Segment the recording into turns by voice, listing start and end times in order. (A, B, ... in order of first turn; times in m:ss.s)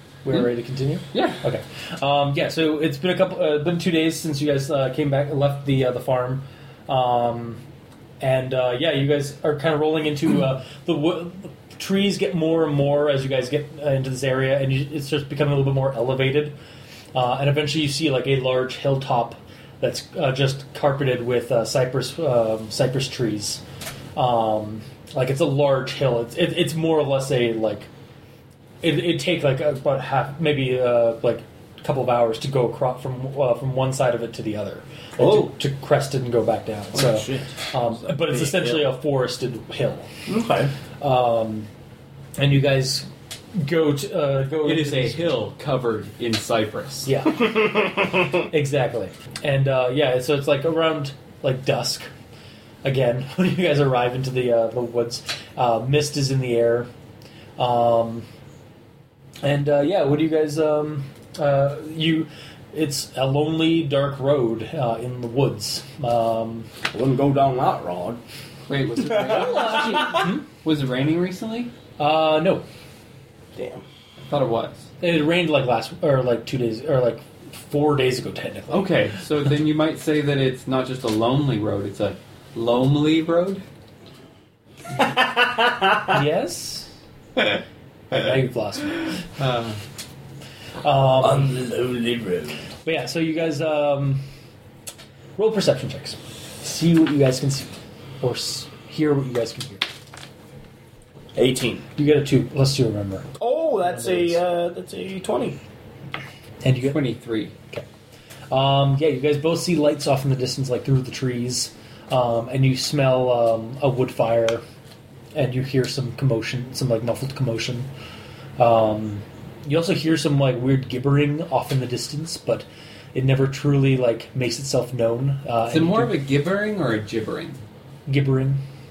0:00.2-0:07.6 A
0:01.1-0:01.4 B
0:08.2-0:16.5 A
0:17.1-0:23.6 A
0:24.2-0:27.9 A
0:28.8-0:40.1 A
0:35.2-0:35.5 C
0:36.9-0:38.9 C
0:40.3-0:40.7 C
0:41.0-0:41.7 A
0:42.4-0:45.3 A
0:44.6-0:47.1 B
0:47.0-0:47.6 A
0:47.5-0:48.2 C
0:48.5-0:52.1 A
0:52.8-0:56.9 A
0:57.6-0:58.2 A
0:59.4-1:06.7 A
1:06.9-1:08.2 C
1:08.7-1:11.7 B
1:09.0-1:10.0 C
1:09.4-1:10.4 A
1:12.0-1:12.6 A
1:13.5-1:13.8 C
1:14.2-1:14.9 B
1:15.0-1:18.9 A
1:18.7-1:23.6 B
1:25.0-1:26.0 C
1:26.1-1:26.9 A
1:28.1-1:29.1 A
1:29.4-1:29.8 B
1:30.8-1:31.5 A
1:31.2-1:32.6 C
1:32.8-1:34.2 A
1:35.4-1:39.8 A
1:41.3-1:41.8 C
1:42.0-1:43.3 A
1:43.4-1:45.6 C
1:43.8-1:44.4 A
1:46.6-1:47.0 A
1:46.8-1:47.5 B
1:48.5-1:54.6 A
1:55.3-1:57.9 A
1:58.6-2:06.2 A
2:05.7-2:07.6 B
2:08.1-2:08.6 A